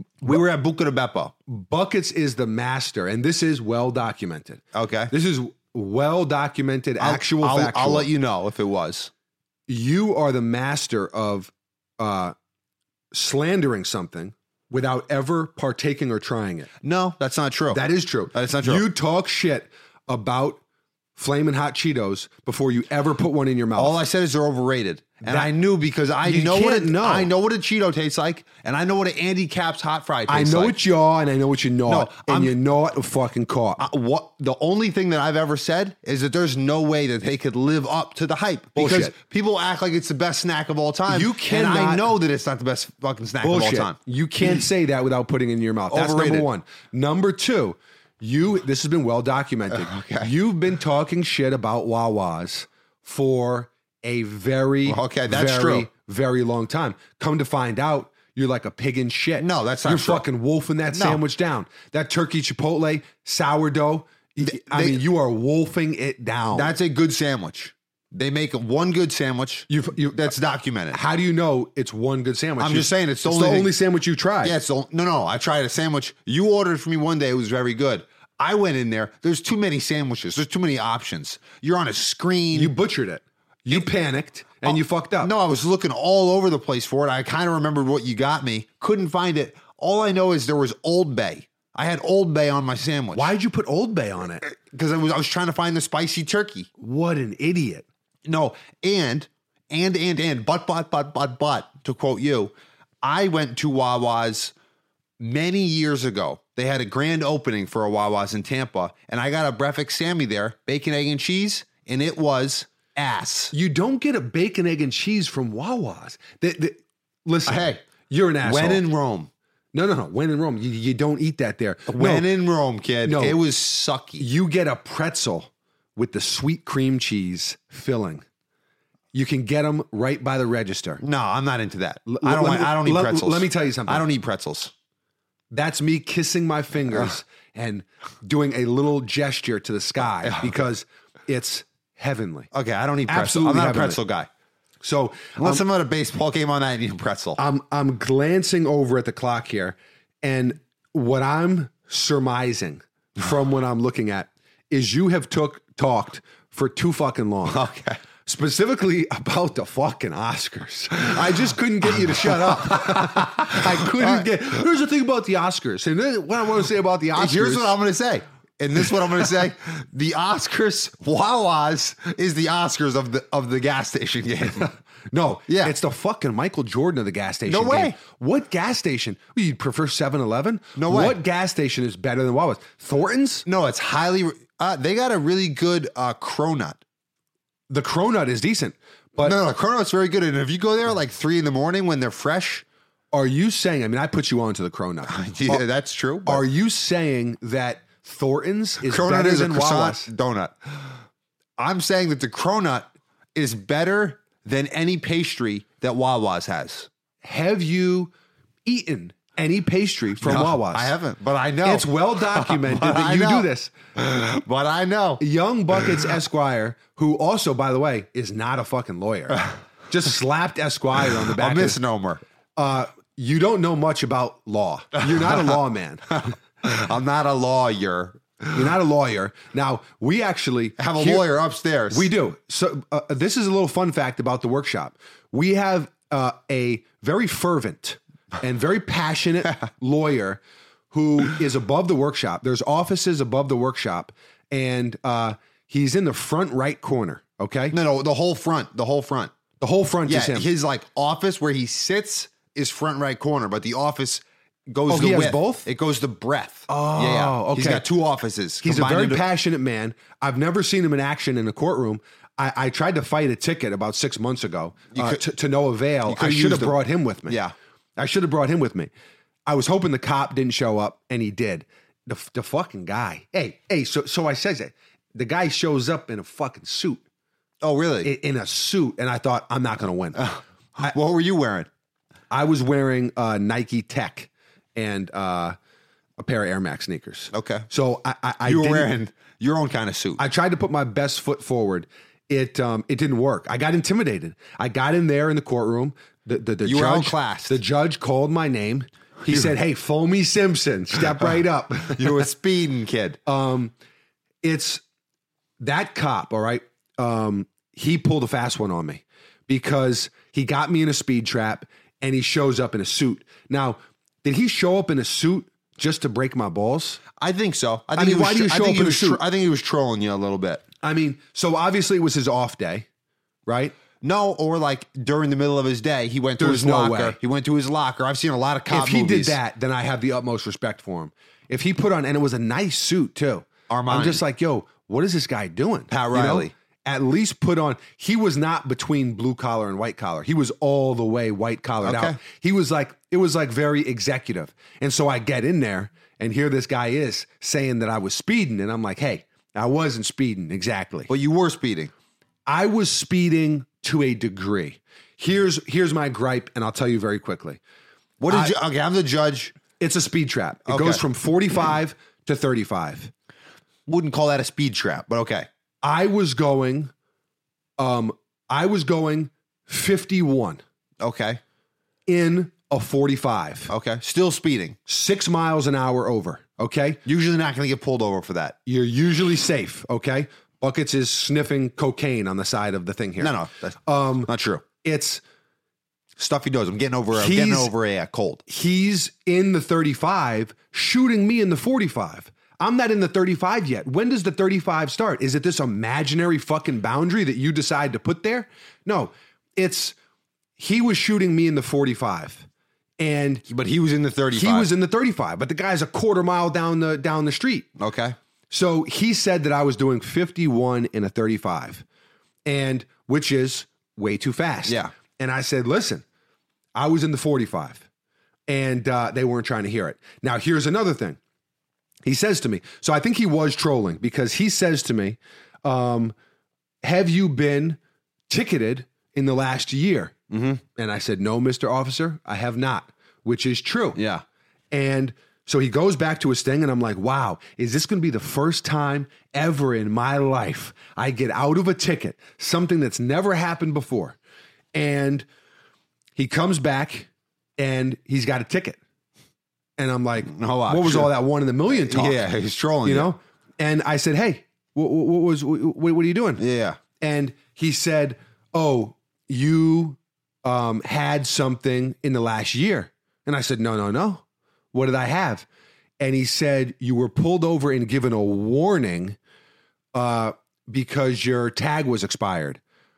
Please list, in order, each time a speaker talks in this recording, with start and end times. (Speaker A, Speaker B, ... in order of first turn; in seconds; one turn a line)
Speaker A: 0.2-1.3
Speaker B: 1.5-8.1
Speaker A: 4.7-5.1
Speaker A: 7.0-9.1
Speaker B: 9.7-12.3
Speaker B: 13.1-16.7
Speaker A: 16.8-18.9
Speaker B: 17.7-20.6
Speaker B: 21.2-24.0
Speaker A: 23.8-30.8
Speaker B: 25.2-25.5
Speaker B: 26.2-27.3
Speaker B: 30.3-33.8
Speaker A: 31.9-32.5
Speaker A: 33.8-44.6
Speaker B: 38.8-39.1
Speaker B: 41.1-42.1
Speaker B: 43.4-66.7
Speaker A: 45.9-46.5
Speaker A: 49.7-50.3
Speaker A: 54.9-55.9
Speaker A: 59.4-60.2
Speaker A: 60.9-61.2
Speaker A: 64.4-65.0
Speaker A: 66.5-71.0
Speaker B: 69.7-70.3
Speaker B: 70.9-74.5
Speaker A: 72.6-73.7
Speaker A: 74.4-82.7
Speaker B: 82.5-85.3
Speaker A: 84.6-93.3
Speaker B: 93.1-94.5
Speaker A: 94.4-96.7
Speaker B: 96.8-97.9
Speaker A: 98.3-104.5
Speaker A: 105.2-113.5
Speaker B: 113.5-118.8
Speaker A: 117.5-117.8
Speaker A: 118.4-119.3
Speaker B: 119.7-122.3
Speaker A: 121.9-124.3
Speaker B: 123.0-123.4
Speaker B: 124.2-128.2
Speaker B: 129.1-131.0
Speaker A: 131.0-134.7
Speaker B: 132.1-134.1
Speaker B: 135.5-142.5
Speaker A: 140.2-140.5
Speaker A: 142.5-144.3
Speaker B: 143.1-144.0
Speaker B: 144.8-145.6
Speaker A: 145.4-147.4
Speaker B: 147.4-157.7
Speaker A: 157.4-158.0
Speaker B: 158.2-167.7
Speaker A: 162.1-164.3
Speaker A: 167.1-174.7
Speaker B: 175.1-183.4
Speaker A: 175.5-175.7
Speaker A: 177.4-178.0
Speaker A: 180.8-181.2
Speaker A: 183.4-186.8
Speaker B: 187.7-189.4
Speaker A: 189.2-192.6
Speaker B: 193.1-195.6
Speaker A: 195.1-196.4
Speaker B: 196.3-200.1
Speaker A: 198.8-201.0
Speaker A: 201.6-206.9
Speaker B: 207.2-208.1
Speaker B: 208.7-210.9
Speaker A: 210.2-215.2
Speaker B: 211.6-213.7
Speaker B: 215.2-221.8
Speaker A: 221.4-222.2
Speaker B: 222.6-226.3
Speaker A: 225.1-225.5
Speaker A: 226.2-228.4
Speaker B: 228.5-231.3
Speaker A: 230.8-232.1
Speaker B: 231.9-240.4
Speaker B: 240.9-247.8
Speaker A: 247.7-249.3
Speaker B: 249.6-250.4
Speaker A: 250.1-259.2
Speaker B: 254.9-255.7
Speaker B: 256.7-257.9
Speaker B: 258.6-267.4
Speaker A: 264.9-265.2
Speaker A: 266.1-267.5
Speaker B: 268.0-268.9
Speaker B: 269.4-277.0
Speaker A: 277.6-278.1
Speaker B: 278.0-280.9
Speaker A: 280.2-281.7
Speaker B: 282.3-285.6
Speaker B: 286.2-288.9
Speaker A: 287.3-287.7
Speaker A: 288.4-290.2
Speaker B: 290.2-302.2
Speaker A: 296.6-297.6
Speaker A: 301.9-303.2
Speaker B: 303.3-303.7
Speaker B: 304.4-304.8
Speaker B: 305.6-317.0
Speaker A: 317.2-320.6
Speaker B: 317.9-319.2
Speaker B: 320.8-322.9
Speaker B: 323.5-323.7
Speaker A: 324.0-329.4
Speaker B: 326.4-327.2
Speaker B: 328.7-351.1
Speaker A: 333.7-334.2
Speaker A: 335.9-336.5
Speaker A: 341.8-342.2
Speaker A: 351.1-351.9
Speaker B: 352.5-357.6
Speaker A: 358.2-359.6
Speaker B: 358.3-358.5
Speaker B: 359.8-363.1
Speaker A: 360.7-361.0
Speaker A: 363.9-365.5
Speaker B: 365.8-366.9
Speaker B: 367.8-370.6
Speaker A: 371.0-371.4
Speaker B: 372.1-373.7
Speaker A: 373.7-374.8
Speaker B: 374.9-377.0
Speaker A: 377.1-378.6
Speaker B: 378.7-384.3
Speaker A: 383.2-384.6
Speaker B: 384.8-385.2
Speaker A: 386.2-388.4
Speaker B: 387.1-387.7
Speaker B: 388.5-399.9
Speaker B: 400.6-402.5
Speaker B: 403.0-403.4
Speaker A: 403.5-404.7
Speaker B: 404.3-407.7
Speaker A: 407.8-408.2
Speaker B: 408.5-411.8
Speaker B: 412.4-416.1
Speaker A: 414.7-414.9
Speaker B: 416.7-417.8
Speaker B: 418.5-421.2
Speaker B: 422.1-426.1
Speaker B: 426.8-430.2
Speaker A: 430.3-430.6
Speaker B: 430.7-434.0
Speaker A: 433.9-434.2
Speaker B: 434.7-444.2
Speaker B: 444.7-445.3
Speaker B: 446.2-448.8
Speaker B: 449.8-452.3
Speaker A: 450.3-451.1
Speaker A: 451.8-453.1
Speaker B: 452.8-456.4
Speaker A: 456.4-456.8
Speaker B: 457.0-465.4
Speaker B: 466.0-469.2
Speaker B: 469.9-472.6